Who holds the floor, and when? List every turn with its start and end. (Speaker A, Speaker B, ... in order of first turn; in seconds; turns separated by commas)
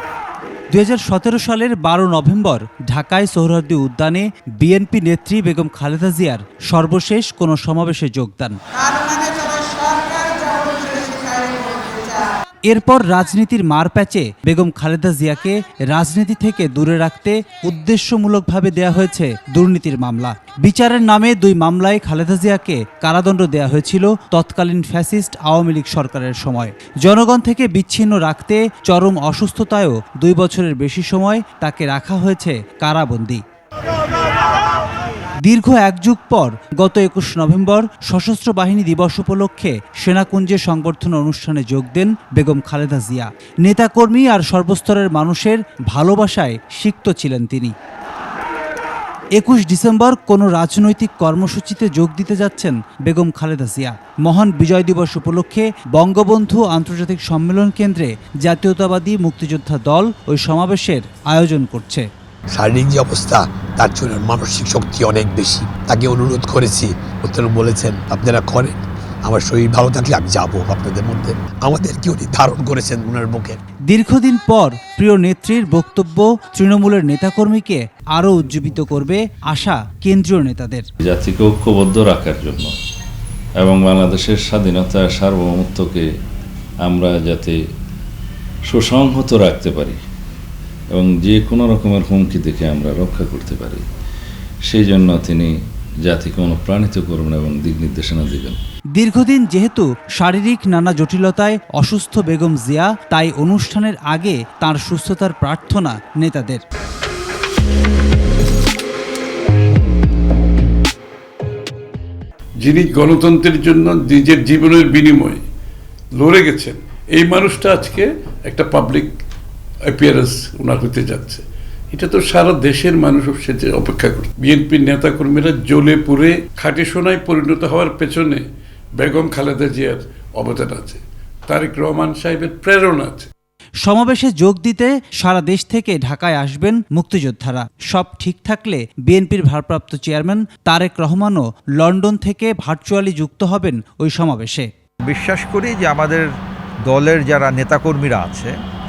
Speaker A: 0.7-8.6, Speaker A: 12.7-33.4, Speaker A: 35.4-47.7, Speaker A: 49.3-62.1, Speaker B: 62.5-73.6, Speaker A: 73.9-80.8, Speaker C: 81.0-82.7, Speaker C: 83.6-86.1, Speaker C: 86.8-87.6, Speaker C: 88.7-90.0, Speaker C: 90.9-93.8, Speaker C: 94.7-95.5, Speaker C: 96.0-98.6, Speaker A: 98.9-106.6, Speaker D: 112.6-115.4, Speaker D: 116.2-119.1, Speaker D: 119.9-128.4, Speaker D: 129.0-133.3, Speaker A: 133.8-144.7, Speaker E: 145.1-146.3, Speaker E: 146.8-148.5